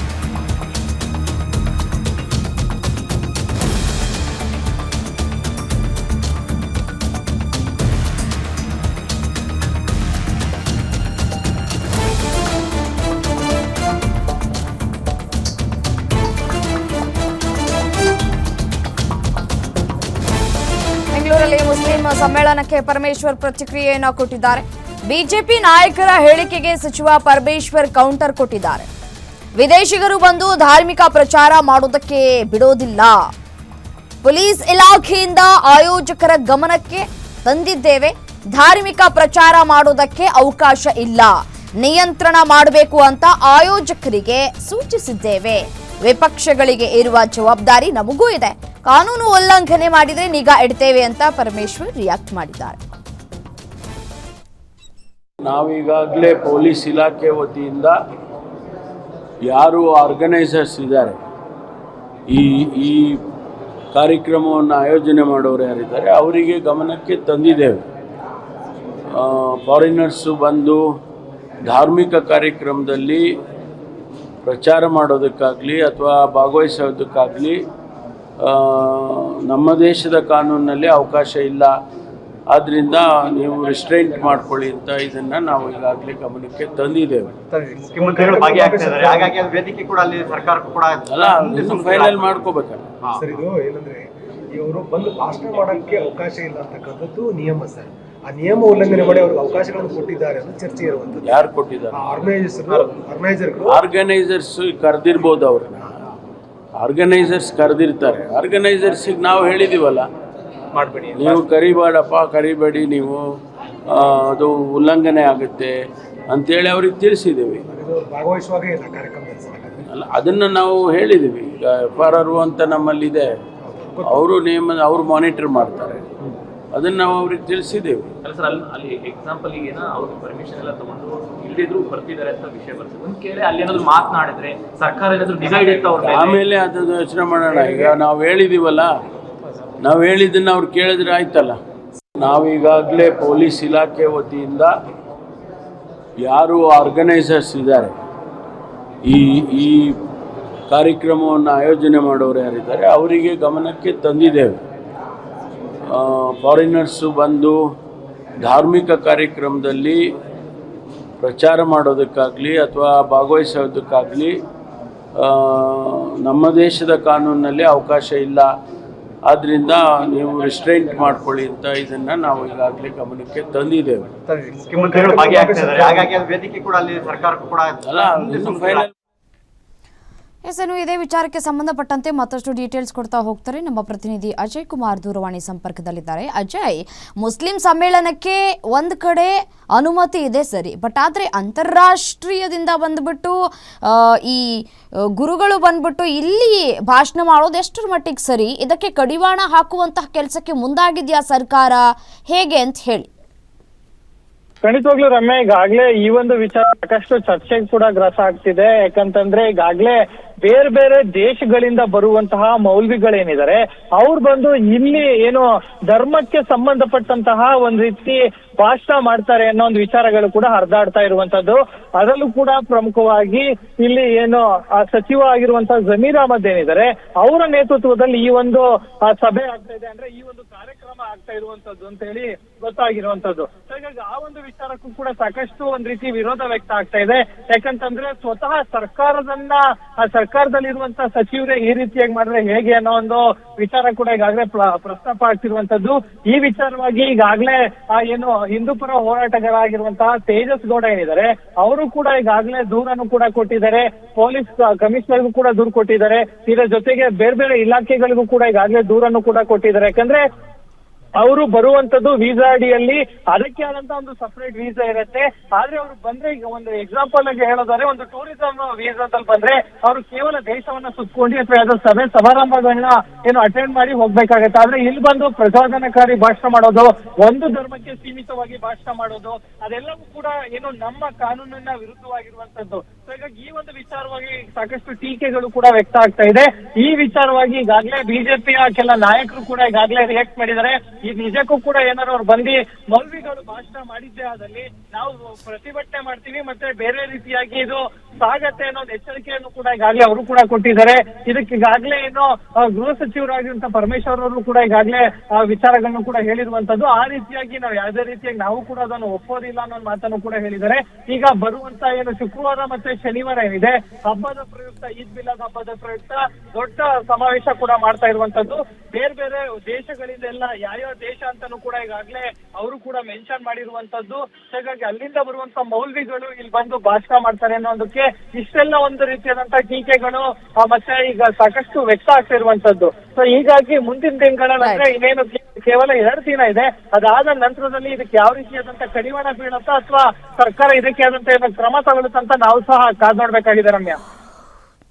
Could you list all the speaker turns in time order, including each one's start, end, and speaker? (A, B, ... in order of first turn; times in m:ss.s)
0:21.1-0:28.9 A
0:29.6-0:33.2 A
0:34.2-0:52.8 A
0:55.4-0:57.9 B
0:59.4-1:01.2 B
1:02.3-1:03.2 B
1:03.9-1:07.8 B
1:09.1-1:10.8 B
1:11.6-1:13.2 B
1:14.4-1:17.6 B
1:18.4-1:21.7 B
1:22.5-1:27.3 B
1:27.5-1:29.4 C
1:27.9-1:33.2 D
1:31.0-1:32.8 B
1:33.1-1:43.8 C
1:41.2-1:42.0 B
1:43.7-1:45.9 B
1:46.8-1:50.1 B
1:50.8-1:51.2 C
1:51.1-1:53.2 B
1:53.9-1:55.7 B
1:56.3-1:57.6 B
1:57.7-1:59.8 C
1:59.9-2:03.3 B
2:03.7-2:04.2 C
2:04.0-2:06.0 B
2:06.7-2:08.1 B
2:08.2-2:16.4 E
2:16.0-2:19.0 B
2:19.8-2:21.6 B
2:22.2-2:24.7 B
2:26.2-2:28.0 B
2:29.0-2:30.0 B
2:30.7-2:34.6 B
2:35.9-2:37.6 B
2:38.4-2:40.0 B
2:41.2-2:44.4 B
2:45.2-2:48.5 B
2:49.2-2:54.1 B
2:54.2-2:56.1 C
2:54.5-2:58.9 D
2:57.8-2:58.9 B
3:00.4-3:14.6 A
3:15.1-3:23.1 A
3:24.6-4:20.2 F
4:21.2-5:44.0 F